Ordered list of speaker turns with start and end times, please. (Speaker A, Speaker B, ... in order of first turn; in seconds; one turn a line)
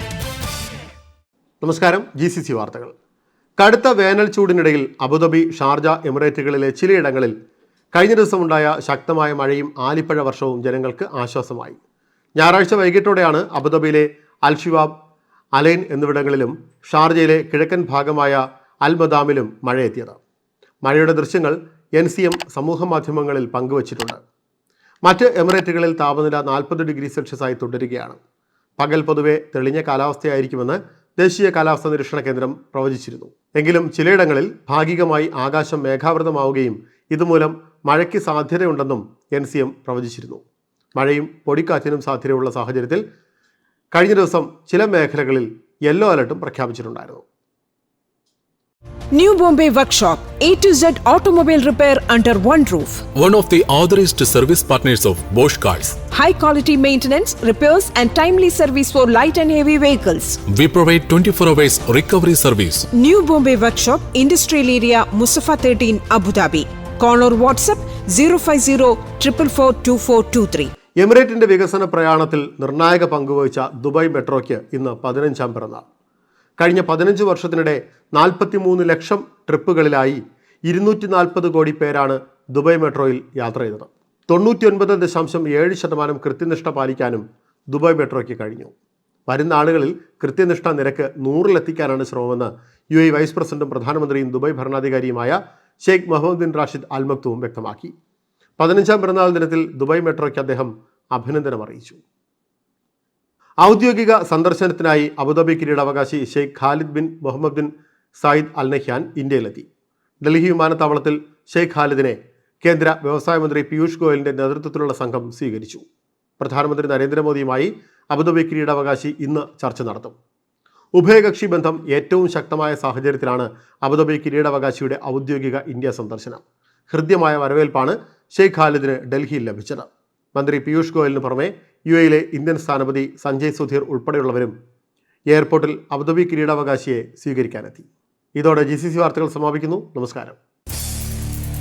Speaker A: 1.6-2.9
Speaker A: 3.6-7.3
Speaker A: 7.9-11.8
Speaker A: 12.4-14.9
Speaker A: 15.5-20.2
Speaker A: 20.8-24.2
Speaker A: 25.0-28.2
Speaker A: 28.8-40.4
Speaker A: 40.9-43.0
Speaker A: 43.9-47.2
Speaker B: 49.1-53.0
Speaker C: 53.1-56.0
Speaker B: 56.1-60.4
Speaker C: 60.5-62.9
Speaker B: 62.9-70.7
Speaker A: 71.0-75.8
Speaker A: 76.6-88.7
Speaker A: 89.3-97.9
Speaker A: 98.6-102.0
Speaker A: 103.6-109.7
Speaker A: 110.2-115.8
Speaker A: 116.4-120.1
Speaker A: 120.9-134.5
Speaker A: 135.3-140.4